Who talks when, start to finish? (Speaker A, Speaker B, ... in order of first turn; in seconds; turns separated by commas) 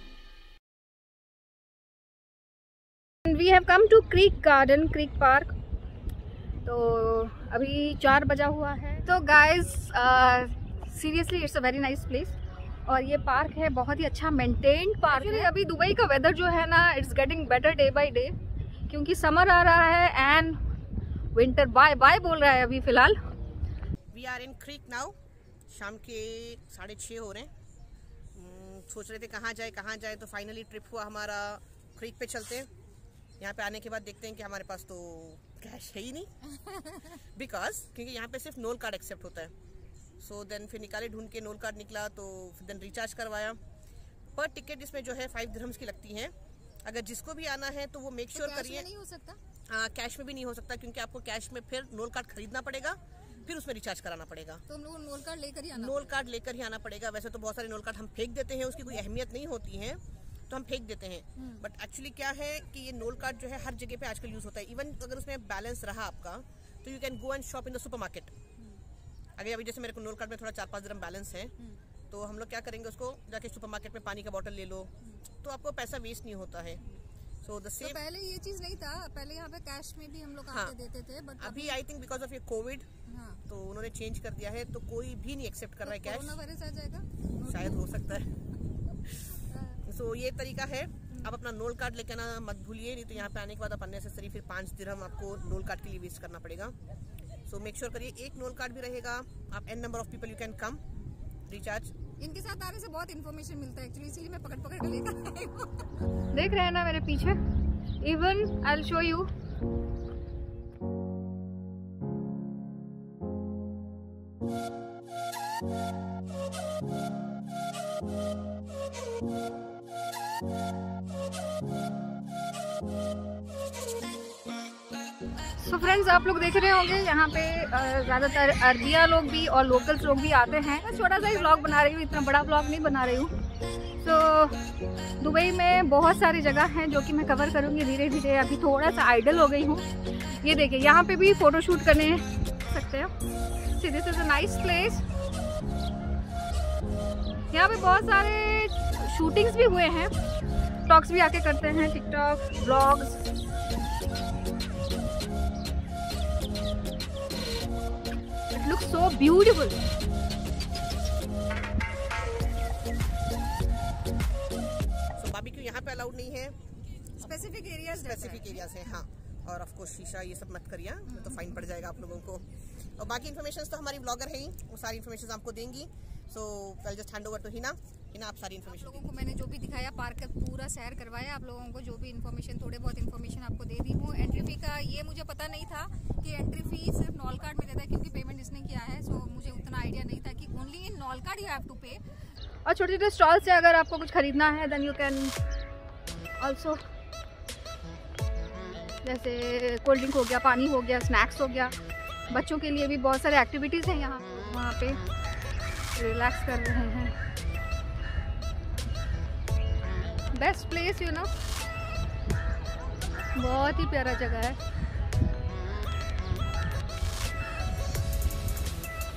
Speaker A: 3.2-5.5, Speaker A: 6.6-18.3, Speaker A: 18.9-20.6, Speaker A: 21.3-23.2, Speaker B: 24.1-25.1, Speaker B: 25.7-27.5, Speaker B: 28.3-32.7, Speaker B: 33.4-36.3, Speaker B: 37.1-39.5, Speaker B: 40.2-43.6, Speaker B: 44.4-46.3, Speaker B: 46.8-48.9, Speaker C: 48.3-49.4, Speaker B: 49.7-54.6, Speaker C: 54.7-56.2, Speaker B: 55.8-68.3, Speaker B: 69.4-71.5, Speaker B: 72.1-74.9, Speaker B: 75.4-76.8, Speaker B: 77.4-78.0, Speaker C: 77.8-81.8, Speaker B: 80.5-80.8, Speaker B: 81.4-82.9, Speaker C: 83.1-83.4, Speaker B: 83.5-86.4, Speaker C: 85.9-87.9, Speaker B: 87.4-88.4, Speaker C: 89.5-89.8, Speaker B: 89.8-96.7, Speaker B: 97.5-100.8, Speaker B: 101.5-101.9, Speaker C: 102.2-106.1, Speaker A: 106.3-107.4, Speaker A: 108.0-109.3, Speaker A: 125.6-133.3, Speaker A: 134.0-134.6, Speaker A: 135.2-143.1, Speaker A: 143.7-145.0, Speaker A: 147.5-150.1, Speaker A: 150.9-153.2, Speaker A: 158.5-159.8, Speaker B: 165.2-166.6, Speaker C: 167.2-168.6, Speaker B: 167.9-179.2, Speaker C: 178.7-192.0, Speaker A: 192.7-195.4, Speaker A: 196.4-196.8, Speaker A: 199.0-201.7, Speaker A: 202.3-205.0, Speaker A: 205.9-207.2, Speaker A: 210.3-211.3, Speaker A: 213.3-214.6